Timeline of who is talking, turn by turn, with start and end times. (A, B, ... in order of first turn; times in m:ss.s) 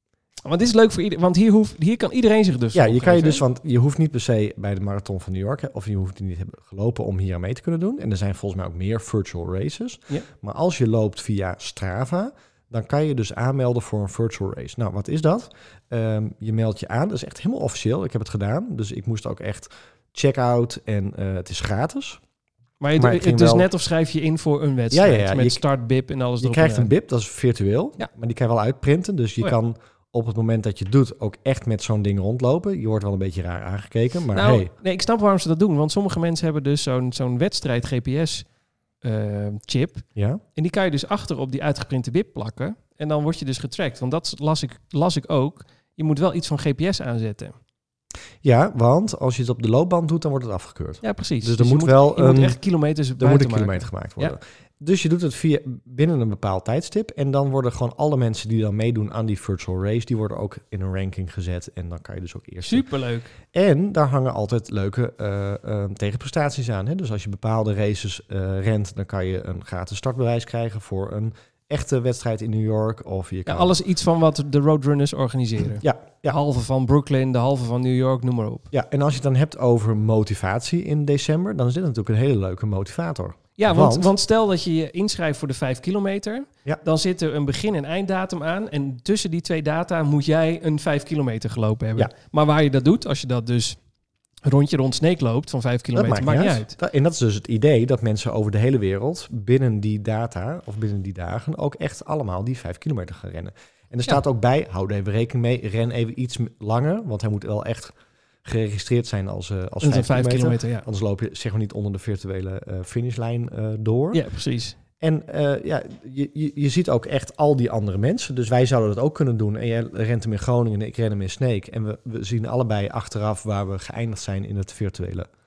0:00.4-0:03.4 A
0:02.7-0:22.2 B
0:22.8-0:26.9 A
0:23.0-0:23.7 B
0:24.9-0:25.6 B
0:26.4-0:34.7 B
0:34.3-0:38.5 A
0:39.0-0:47.6 A
0:40.2-0:40.4 B
0:48.4-0:52.6 B
0:51.0-0:54.4 A
0:53.2-1:02.9 B
1:02.6-1:03.3 A
1:03.5-1:13.8 B
1:13.5-1:18.7 A
1:15.8-1:16.4 B
1:18.7-1:24.1 B
1:23.6-1:33.8 A
1:34.4-1:36.8 A
1:36.0-1:54.2 B
1:49.8-1:50.9 A
1:54.1-1:54.8 A
1:55.0-2:05.3 B